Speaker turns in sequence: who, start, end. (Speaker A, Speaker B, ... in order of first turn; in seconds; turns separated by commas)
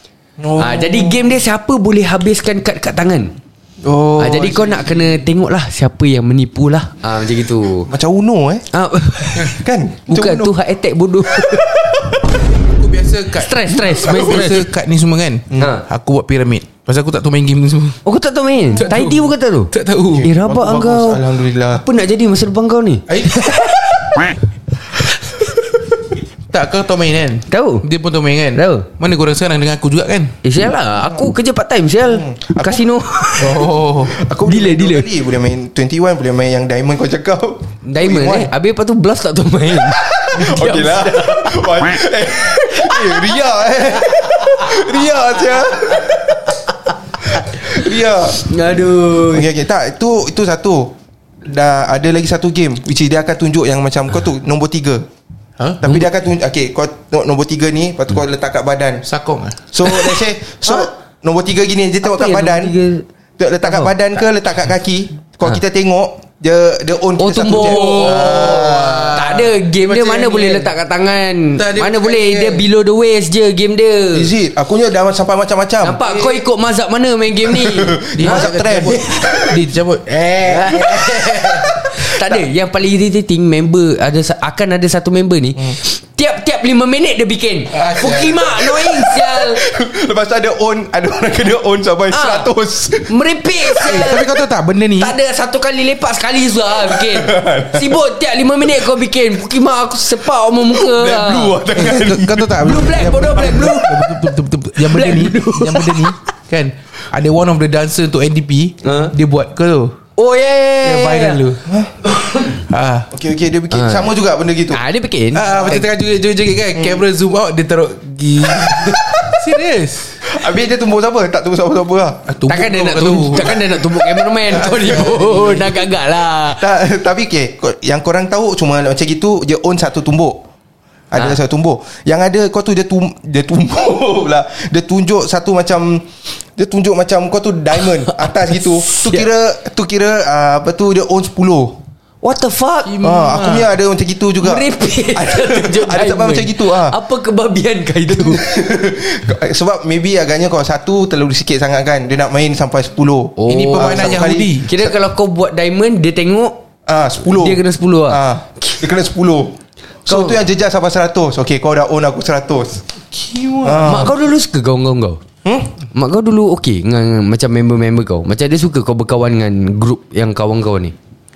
Speaker A: 0.4-1.4, Speaker B: 0.6-3.3, Speaker A: 3.8-4.9, Speaker B: 4.2-7.9, Speaker A: 7.9-8.7, Speaker B: 8.7-11.7, Speaker A: 9.4-10.6, Speaker A: 11.3-12.2, Speaker C: 12.7-18.0, Speaker B: 13.4-14.7, Speaker B: 15.6-15.8, Speaker B: 18.1-24.3, Speaker C: 18.8-20.2, Speaker A: 20.1-21.8, Speaker C: 23.1-23.5, Speaker C: 26.5-30.4, Speaker B: 27.5-27.9, Speaker B: 28.5-28.9, Speaker B: 30.4-33.7, Speaker A: 32.1-32.9, Speaker C: 33.4-34.2, Speaker A: 34.0-38.5, Speaker B: 34.4-35.1, Speaker B: 37.8-42.0, Speaker A: 39.9-46.6, Speaker B: 42.6-45.0, Speaker B: 45.5-47.8, Speaker A: 47.2-48.5, Speaker B: 48.4-49.5, Speaker A: 49.2-55.1, Speaker C: 55.6-55.9, Speaker A: 55.8-59.1, Speaker C: 59.1-59.6, Speaker A: 59.7-62.7, Speaker B: 62.0-63.0, Speaker A: 63.4-69.1, Speaker B: 67.2-74.3, Speaker C: 67.5-70.7, Speaker C: 71.6-72.7, Speaker A: 74.1-76.0, Speaker B: 75.8-79.5, Speaker C: 76.0-76.4, Speaker A: 77.5-79.4, Speaker C: 78.1-81.9, Speaker B: 80.5-89.6, Speaker C: 87.7-88.7, Speaker A: 88.9-94.1, Speaker B: 92.1-92.5, Speaker B: 93.1-94.3, Speaker C: 93.9-95.1, Speaker B: 95.0-101.6, Speaker A: 96.8-98.0, Speaker A: 100.7-102.5, Speaker C: 101.8-110.0, Speaker B: 102.6-104.2, Speaker B: 104.8-106.1, Speaker B: 108.8-109.1, Speaker B: 110.2-111.4, Speaker C: 110.8-111.6, Speaker A: 111.7-111.9, Speaker B: 112.0-112.6, Speaker C: 112.7-113.1, Speaker A: 113.1-114.8, Speaker B: 113.7-114.1, Speaker B: 114.7-115.9, Speaker C: 115.3-120.2, Speaker A: 118.6-119.0, Speaker A: 120.2-122.3, Speaker C: 122.3-125.8, Speaker B: 122.5-126.7, Speaker A: 126.5-130.4, Speaker A: 131.1-141.8, Speaker B: 137.8-139.3, Speaker B: 142.2-143.0, Speaker C: 142.9-143.7, Speaker A: 143.0-146.9, Speaker B: 144.4-148.4, Speaker A: 148.1-154.9, Speaker B: 153.4-156.6, Speaker C: 153.5-154.7, Speaker A: 156.9-162.8, Speaker B: 157.3-158.8, Speaker B: 160.1-160.4, Speaker C: 163.1-163.9, Speaker A: 163.6-164.1, Speaker B: 163.8-165.2, Speaker A: 165.4-165.7, Speaker B: 165.9-170.9